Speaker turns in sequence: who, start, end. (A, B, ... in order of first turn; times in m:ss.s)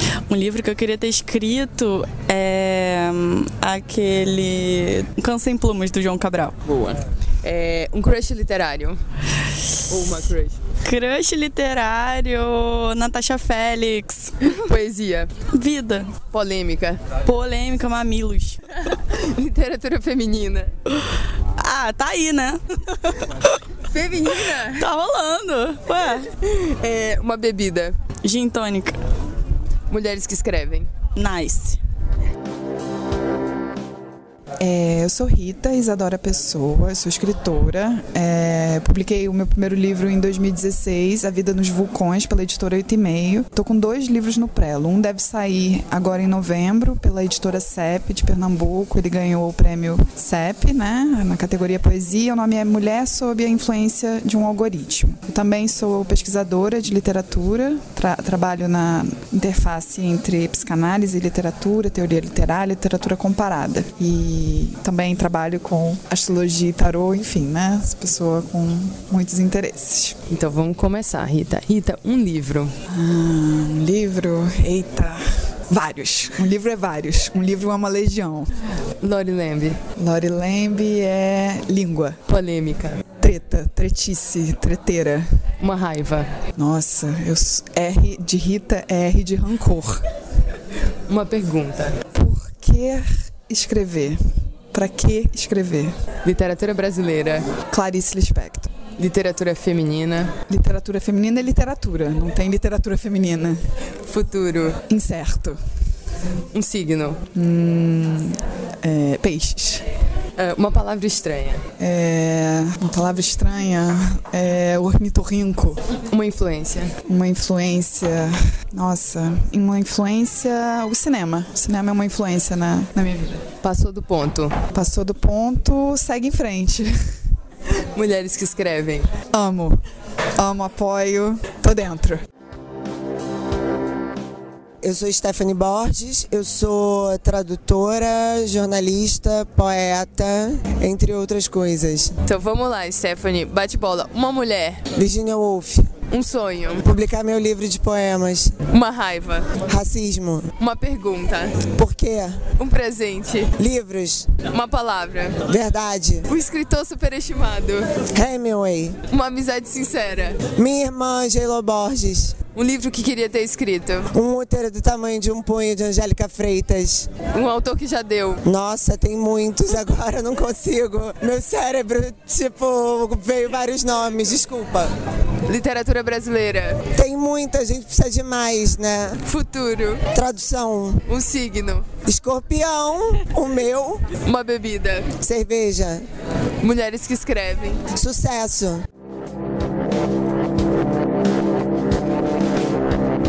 0:00.3-0:06.9 A
0:07.4-0:09.0 B
0:09.9-0:10.6 B
0:10.8-0:14.5 A
0:14.6-0:15.3 B
0:15.5-0:16.2 A
0:16.3-0:17.0 B
0:17.2-0:18.6 A
0:19.1-0:20.7 B
0:21.6-0:23.6 A
0:23.9-0:24.8 B
0:24.3-0:26.2 A
0:26.4-0:27.9 B
0:28.2-0:29.0 A
0:29.9-0:30.9 B
0:31.2-0:31.8 A
0:34.6-1:10.1 C
1:10.3-1:12.7 B
1:12.9-1:18.5 C
1:19.0-1:19.8 B
1:20.0-1:22.2 C
1:22.3-1:23.0 B
1:23.2-1:25.2 C
1:25.6-1:26.3 B
1:26.6-1:30.0 C
1:31.1-1:31.9 B
1:32.1-1:34.2 C
1:34.7-1:35.9 C
1:36.2-1:37.5 B
1:37.7-1:38.7 C
1:39.0-1:40.3 B
1:40.5-1:43.6 C
1:44.0-1:44.8 B
1:44.9-1:45.6 C
1:46.5-1:47.2 B
1:47.3-1:49.8 C
1:50.4-1:51.6 B
1:51.8-1:55.8 C
1:56.1-1:56.9 B
1:57.0-2:03.4 C
2:03.6-2:04.6 B
2:04.7-2:06.9 C
2:07.9-2:09.1 B
2:09.3-2:09.8 C
2:10.4-2:12.2 C
2:14.8-2:22.1 D
2:22.2-2:24.8 B
2:25.0-2:25.9 D
2:26.1-2:26.8 B
2:26.8-2:28.5 D
2:28.7-2:29.5 B
2:29.7-2:30.5 D
2:30.6-2:31.6 B
2:31.7-2:32.4 D
2:32.6-2:33.5 B
2:33.6-2:34.4 D
2:34.5-2:35.4 B
2:35.5-2:36.2 D
2:36.3-2:37.9 B
2:38.1-2:39.0 D
2:39.1-2:40.4 B
2:40.6-2:42.3 D
2:42.5-2:44.1 B
2:44.1-2:47.2 D
2:47.3-2:48.4 B
2:48.4-2:54.9 D
2:55.4-2:56.8 B
2:57.0-2:59.2 D
2:59.2-3:00.0 B
3:00.1-3:01.0 D
3:01.0-3:01.9 B
3:02.0-3:04.0 D
3:04.2-3:05.1 B
3:05.2-3:06.0 D
3:06.6-3:07.8 B
3:07.9-3:08.8 D